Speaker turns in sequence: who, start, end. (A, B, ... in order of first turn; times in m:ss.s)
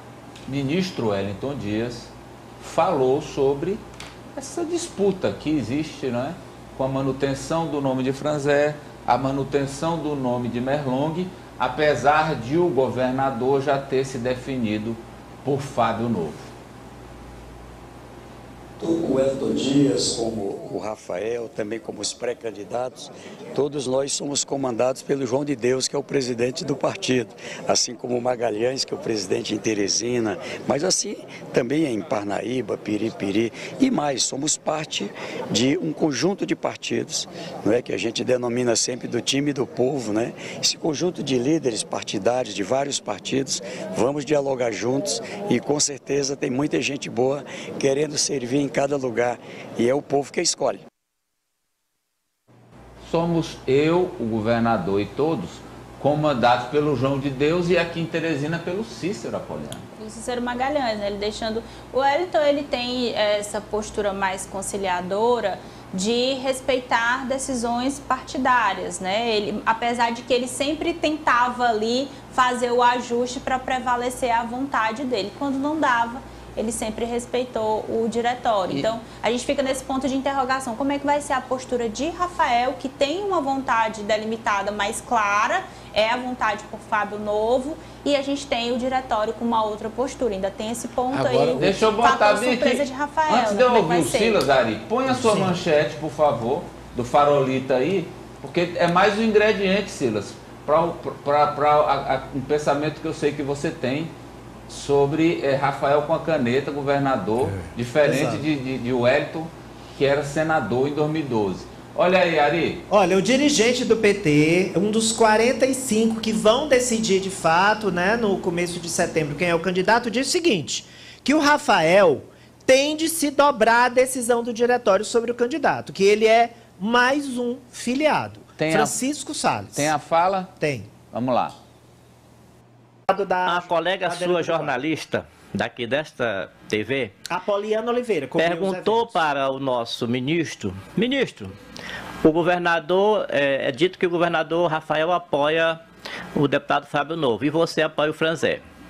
0:00.5-0:03.8 A
0:04.4-0:16.5 A
0:18.8-0:50.8 B
0:53.0-0:59.8 A
1:00.0-1:34.5 C
1:31.1-1:44.1 A
1:35.1-1:35.5 D
1:44.7-1:52.8 A
1:48.0-1:48.4 D
1:52.9-2:09.9 D
2:08.6-2:09.0 A
2:09.7-2:10.5 A
2:10.6-2:10.9 D
2:11.1-2:11.6 A
2:13.1-2:14.8 D
2:13.4-2:17.1 E
2:17.3-2:19.2 D
2:18.4-2:21.6 E
2:22.2-2:25.8 E
2:26.3-2:28.6 E